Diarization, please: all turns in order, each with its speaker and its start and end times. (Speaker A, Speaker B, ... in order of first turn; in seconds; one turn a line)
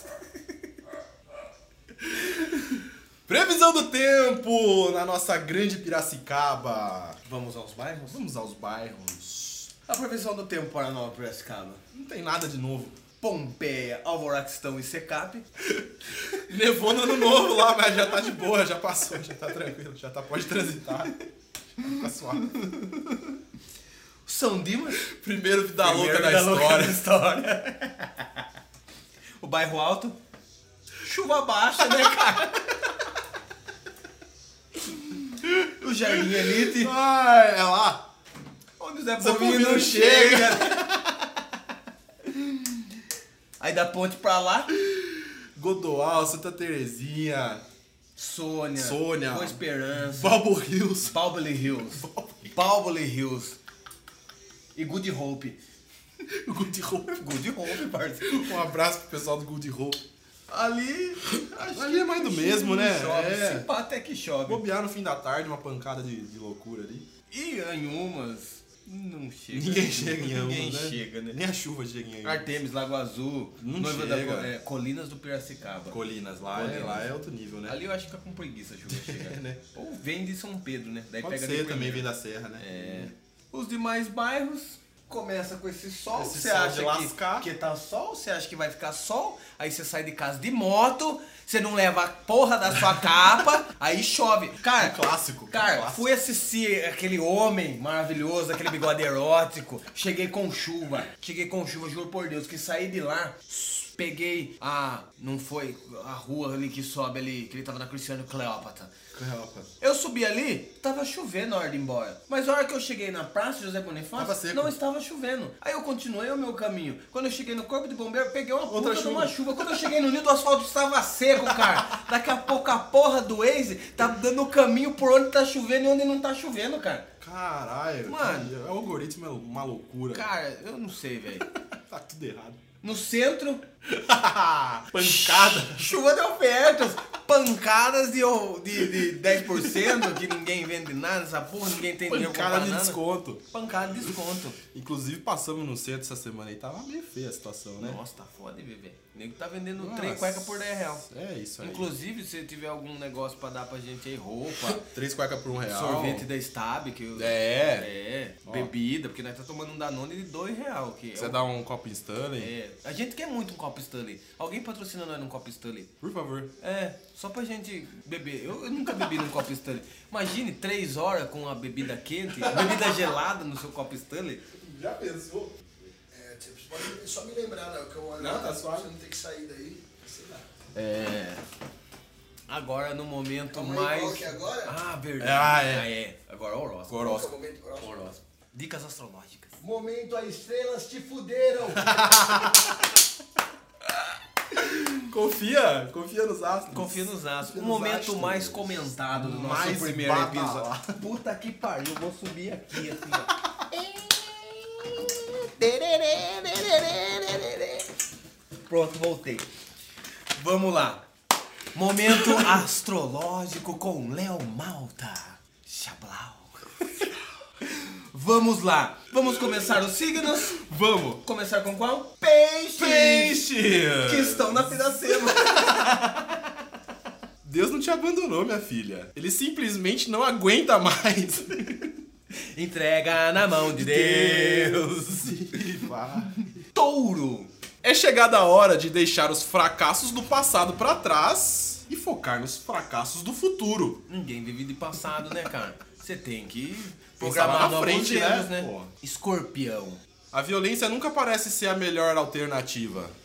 Speaker A: 2.0-7.2
Speaker B: 7.2-8.2
Speaker A: 8.1-9.7
Speaker B: 9.9-11.8
Speaker A: 11.9-13.0
Speaker B: 13.2-15.5
Speaker A: 15.7-21.1
Speaker A: 21.8-22.5
Speaker B: 21.9-23.1
Speaker B: 24.2-25.1
Speaker A: 25.0-27.0
Speaker B: 25.8-28.5
Speaker B: 29.4-30.2
Speaker B: 31.0-32.8
Speaker A: 34.9-38.1
Speaker B: 35.7-36.9
Speaker B: 38.8-40.8
Speaker A: 39.2-41.4
Speaker B: 43.6-44.7
Speaker A: 44.8-47.6
Speaker B: 48.1-50.4
Speaker A: 48.8-51.1
Speaker B: 51.0-53.6
Speaker A: 51.9-52.5
Speaker B: 54.8-55.6
Speaker A: 56.3-57.6
Speaker B: 57.0-58.6
Speaker A: 58.2-60.0
Speaker B: 60.5-64.6
Speaker A: 61.3-63.7
Speaker A: 64.5-67.1
Speaker B: 67.3-71.4
Speaker A: 69.5-72.5
Speaker B: 72.2-76.0
Speaker A: 73.6-74.5
Speaker A: 75.9-77.8
Speaker B: 76.5-77.1
Speaker B: 77.7-95.0
Speaker A: 78.9-79.6
Speaker A: 81.2-83.1
Speaker A: 86.1-87.5
Speaker A: 94.8-96.1
Speaker B: 95.5-108.9
Speaker A: 109.1-109.7
Speaker B: 109.8-127.1
Speaker A: 114.2-114.7
Speaker A: 118.7-119.5
Speaker A: 121.4-121.8
Speaker A: 127.2-130.3
Speaker B: 128.0-128.5
Speaker B: 130.1-131.5
Speaker A: 131.4-132.6
Speaker B: 132.8-133.6
Speaker A: 133.8-135.9
Speaker B: 134.9-143.0
Speaker A: 138.8-140.2
Speaker A: 141.9-144.1
Speaker B: 143.5-144.6
Speaker A: 144.7-148.0
Speaker B: 147.8-151.1
Speaker A: 149.8-151.9
Speaker B: 151.6-154.8
Speaker A: 154.6-156.3
Speaker B: 155.7-161.4
Speaker A: 157.1-157.9
Speaker A: 158.4-158.7
Speaker A: 161.2-162.5
Speaker B: 162.4-165.9
Speaker A: 166.0-166.5
Speaker B: 166.6-174.4
Speaker A: 172.4-173.1
Speaker A: 174.6-175.6
Speaker C: 176.1-180.5
Speaker A: 178.2-178.9
Speaker B: 180.7-181.4
Speaker B: 182.5-189.6
Speaker C: 183.5-184.7
Speaker A: 185.2-185.9
Speaker A: 186.9-187.3
Speaker C: 187.0-188.1
Speaker C: 189.6-192.1
Speaker A: 191.8-192.8
Speaker A: 194.6-200.9
Speaker B: 196.7-207.9
Speaker B: 208.7-209.5
Speaker B: 210.3-211.1
Speaker B: 211.7-216.9
Speaker A: 212.1-212.6
Speaker B: 217.6-220.6
Speaker A: 219.2-221.2
Speaker B: 221.2-226.4
Speaker A: 222.8-226.0
Speaker A: 227.4-231.9
Speaker B: 232.3-235.7
Speaker A: 233.6-236.5
Speaker B: 236.5-237.5
Speaker A: 237.8-244.0
Speaker B: 244.1-250.0
Speaker A: 247.2-248.9
Speaker A: 250.3-253.1